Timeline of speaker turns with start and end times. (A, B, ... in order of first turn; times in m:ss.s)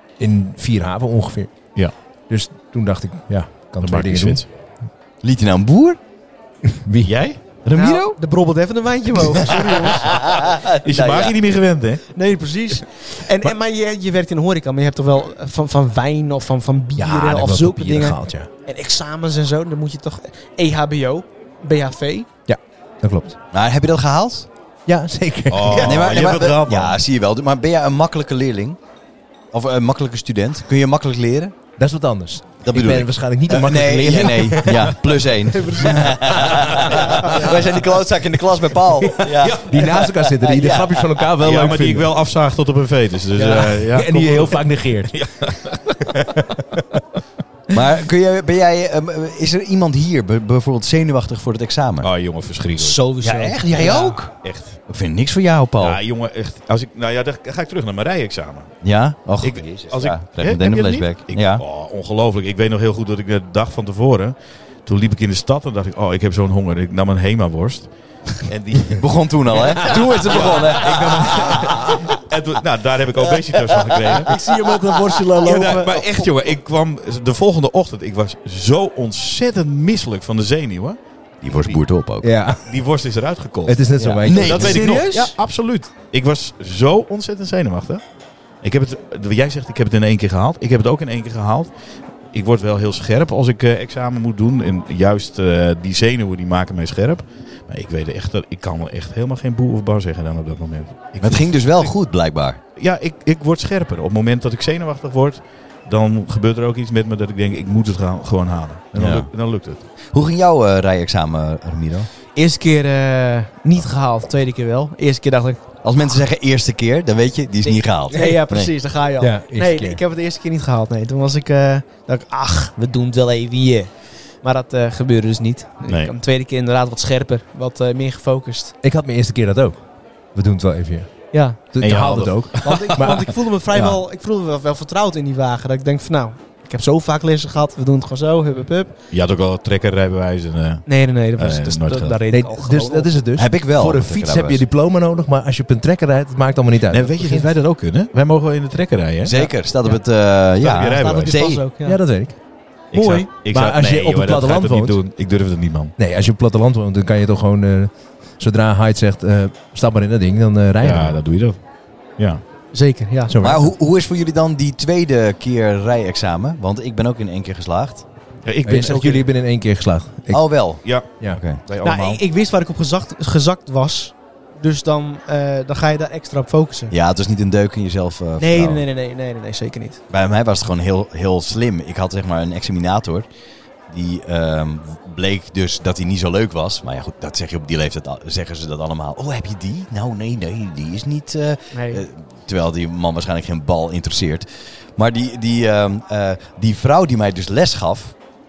0:00.2-0:04.4 A
0:03.8-0:04.5 B
0:05.2-0:06.0 C
0:06.7-0:07.1 A
0:07.0-0:07.4 B
0:07.6-0:08.2 C
0:07.7-0:10.4 D
0:10.0-0:11.4 C
0:10.8-0:12.1 B
0:12.1-0:22.3 D
0:17.0-0:18.5 A
0:22.5-0:23.4 A
0:23.5-0:24.5 C
0:24.9-0:26.0 A
0:25.5-0:27.0 B
0:25.8-0:28.8 C
0:29.5-0:31.6 C
0:31.8-0:37.7 A
0:32.6-0:41.2 C
0:39.0-0:42.1 A
0:39.4-0:40.0 B
0:41.4-0:46.8 B
0:43.4-0:45.5 A
0:46.1-0:46.8 A
0:47.7-0:52.1 C
0:52.0-0:53.2 B
0:52.8-0:54.2 D
0:53.2-0:54.3 C
0:53.7-0:54.8 B
0:54.9-0:56.0 C
0:55.8-0:58.8 B
0:58.8-1:01.6 C
0:59.4-1:04.4 B
1:04.9-1:14.4 B
1:08.9-1:12.0 C
1:10.8-1:11.7 A
1:13.8-1:14.2 C
1:14.3-1:16.3 D
1:15.4-1:21.0 B
1:21.4-1:22.3 C
1:21.5-1:21.8 B
1:22.2-1:22.8 A
1:22.6-1:28.0 B
1:23.7-1:25.0 A
1:24.2-1:24.8 C
1:24.6-1:25.4 D
1:28.6-1:31.7 B
1:32.3-1:41.9 B
1:41.2-1:42.6 C
1:42.8-1:49.8 B
1:49.0-1:49.3 C
1:50.1-1:52.1 C
1:52.4-1:55.7 D
1:55.8-1:58.7 C
1:57.6-2:08.8 D
1:59.2-2:00.0 A
2:05.9-2:06.1 B
2:08.8-2:09.8 A
2:10.3-2:13.3 A
2:11.3-2:11.8 D
2:11.8-2:13.9 B
2:12.6-2:19.0 D
2:19.1-2:22.2 B
2:20.9-2:23.1 D
2:22.3-2:27.5 A
2:23.4-2:24.6 C
2:26.9-2:29.5 B
2:29.2-2:31.6 C
2:29.4-2:30.0 D
2:30.6-2:31.4 B
2:30.7-2:32.0 D
2:31.8-2:32.4 A
2:32.9-2:36.0 B
2:32.9-2:33.3 D
2:33.5-2:35.0 A
2:36.0-2:41.2 A
2:40.8-2:41.6 B
2:42.7-2:43.4 D
2:43.3-2:43.7 A
2:43.4-2:48.0 C
2:48.4-2:49.3 B
2:48.6-2:51.4 A
2:50.3-2:51.6 C
2:50.8-2:52.2 B
2:51.8-2:56.9 D
2:56.9-2:58.8 C
2:58.4-3:00.0 D
3:00.1-3:03.3 C
3:03.9-3:18.2 C
3:11.7-3:12.0 D